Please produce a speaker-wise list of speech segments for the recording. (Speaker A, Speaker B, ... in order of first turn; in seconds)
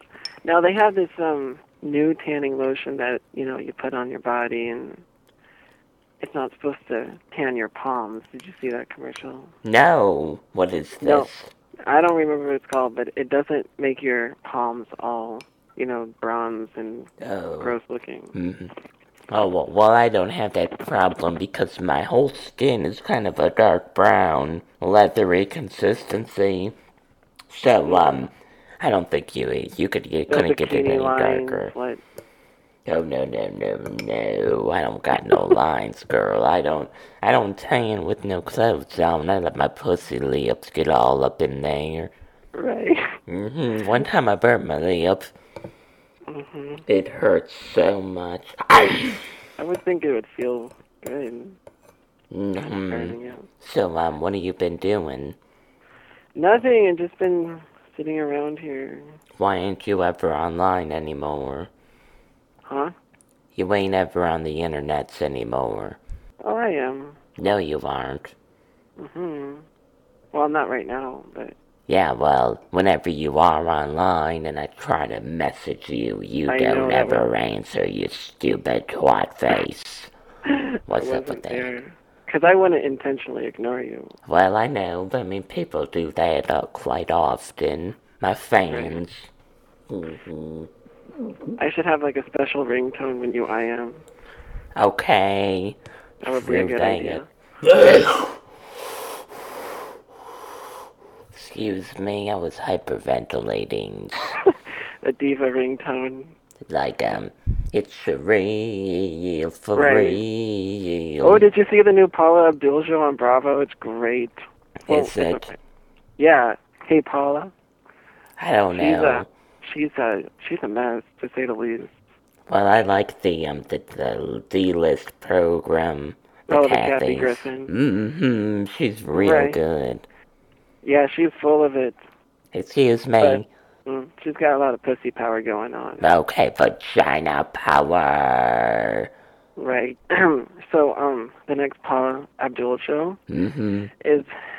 Speaker A: 0.5-5.0, 6.2-9.5, 11.0-11.3, 11.9-18.4, 27.9-28.2, 30.3-32.0, 42.5-43.2, 46.3-46.9, 49.6-51.6, 52.9-53.5, 56.4-59.2, 62.7-62.9, 66.4-67.2, 69.0-69.7, 70.3-71.6, 76.5-77.3, 80.5-84.2, 88.7-89.0, 91.6-94.0, 96.2-97.3, 104.5-106.3, 109.8-110.2, 111.2-115.6, 116.2-117.5, 118.7-122.0, 126.5-127.7, 129.1-129.6, 130.8-132.0, 133.2-136.1, 139.6-143.2, 144.0-144.3
Speaker B: 9.6-11.5, 17.2-17.8, 18.4-18.7, 19.3-26.8, 27.5-28.3, 28.8-31.7, 32.9-42.1, 43.3-45.3, 46.9-49.2, 52.3-55.4, 59.4-61.7, 63.5-66.0, 67.4-68.3, 71.9-80.1, 80.9-81.7, 84.3-89.3, 89.9-90.7, 94.8-98.3, 101.3-104.4, 106.7-111.4, 114.9-115.5, 118.4-119.3, 122.5-130.1, 132.5-133.5, 136.0-139.1, 143.3-143.9